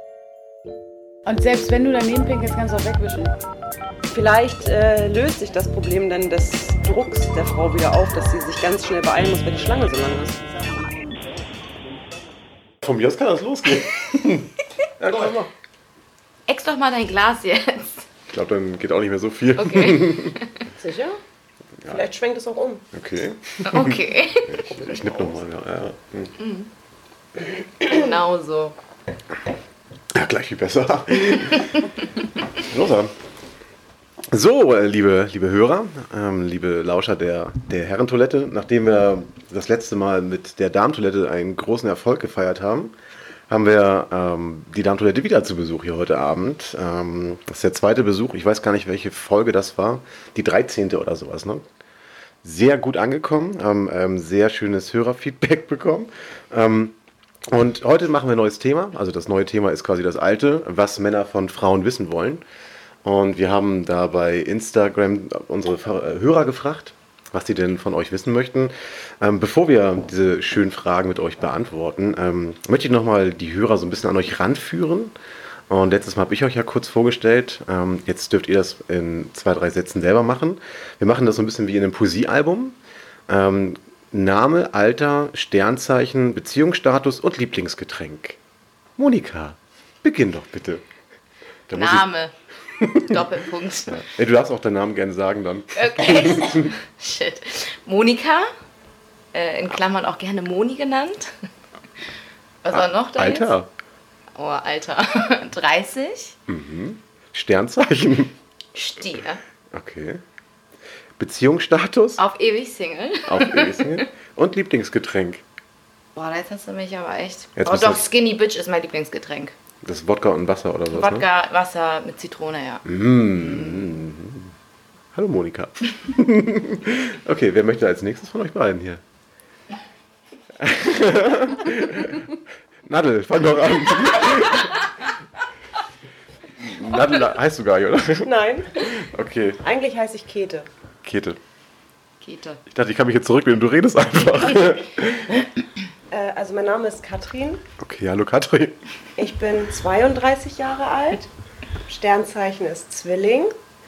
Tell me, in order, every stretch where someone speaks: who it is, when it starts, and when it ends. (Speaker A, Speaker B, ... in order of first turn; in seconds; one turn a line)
Speaker A: 1.3-3.3
Speaker B: 4.1-10.4
Speaker C: 12.8-15.5
Speaker D: 16.5-18.1
Speaker C: 18.3-20.4
Speaker D: 19.6-20.6
Speaker B: 20.8-21.2
Speaker B: 21.9-22.9
Speaker C: 22.9-26.4
Speaker D: 23.6-24.8
Speaker D: 26.4-26.7
Speaker D: 27.8-28.8
Speaker C: 30.1-31.9
Speaker C: 32.6-33.1
Speaker C: 34.3-42.9
Speaker C: 43.5-51.6
Speaker C: 52.4-57.0
Speaker C: 57.5-62.4
Speaker C: 63.0-75.1
Speaker C: 75.7-82.8
Speaker C: 83.3-88.4
Speaker C: 89.0-90.8
Speaker C: 91.7-92.1
Speaker D: 91.8-92.3
Speaker C: 92.8-93.3
Speaker D: 93.0-94.0
Speaker C: 93.9-96.7
Speaker D: 95.8-98.5
Speaker D: 99.3-101.4
Speaker D: 102.6-103.5
Speaker C: 102.7-103.7
Speaker D: 104.4-106.4
Speaker C: 106.5-108.3
Speaker D: 108.8-109.4
Speaker C: 109.7-110.2
Speaker C: 111.2-112.2
Speaker D: 112.2-114.0
Speaker C: 113.3-115.4
Speaker D: 116.2-119.5
Speaker C: 117.6-118.0
Speaker C: 119.8-121.3
Speaker D: 120.9-123.9
Speaker C: 122.8-124.5
Speaker C: 125.1-129.0
Speaker C: 130.6-132.3
Speaker C: 132.9-134.8
Speaker C: 136.6-139.6
Speaker B: 138.2-138.9
Speaker B: 139.6-140.7
Speaker C: 141.0-141.4
Speaker D: 142.2-142.6
Speaker C: 142.7-145.5
Speaker B: 146.1-147.6
Speaker C: 147.8-148.8
Speaker B: 149.2-151.3
Speaker B: 151.9-153.5